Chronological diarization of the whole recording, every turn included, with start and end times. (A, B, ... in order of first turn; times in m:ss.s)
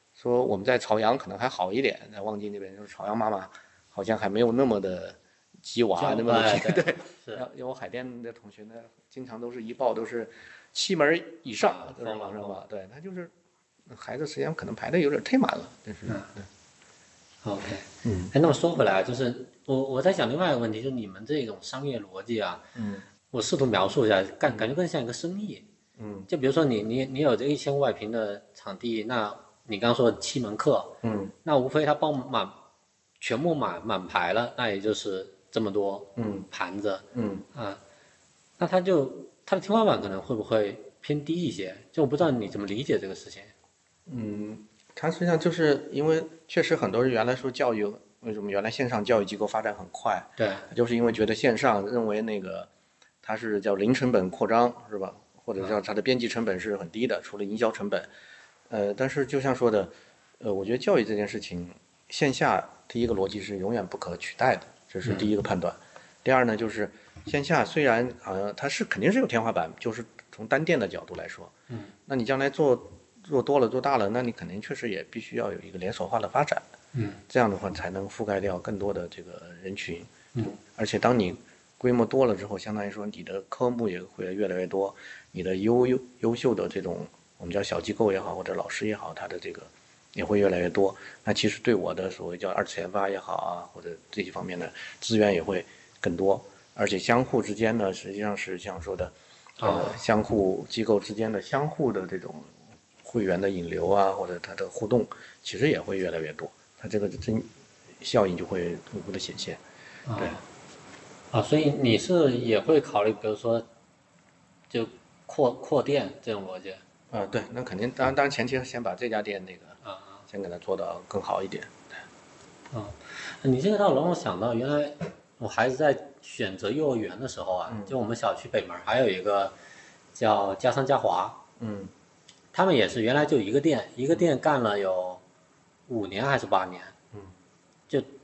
0:00.2-0:13.3 A
0:06.0-0:07.4 B
0:11.6-0:12.6 B
0:13.9-0:16.5 A
0:16.1-0:16.3 B
0:17.4-0:22.6 B
0:18.0-0:18.3 A
0:22.8-0:23.1 A
0:23.3-0:25.6 B
0:26.0-0:26.3 A
0:26.3-0:32.6 B
0:31.0-0:31.3 A
0:33.2-0:37.8 B
0:36.2-0:36.5 A
0:37.1-0:37.5 A
0:38.6-0:43.5 B
0:44.1-0:52.7 A
0:50.4-0:50.7 B
0:53.2-0:58.1 A
0:58.7-1:11.5 A
1:05.0-1:05.3 B
1:12.1-1:16.7 A
1:16.9-1:17.2 B
1:17.3-1:42.5 A
1:39.6-1:40.0 B
1:43.0-1:47.5 A
1:48.0-1:49.6 A
1:50.1-1:50.4 B
1:51.3-1:53.7 B
1:54.7-1:56.8 B
1:57.1-2:02.0 A
1:59.8-2:00.2 B
2:02.7-2:09.6 B
2:07.7-2:07.9 A
2:10.2-2:11.4 B
2:11.6-2:11.9 A
2:12.5-2:15.2 B
2:15.9-2:17.0 B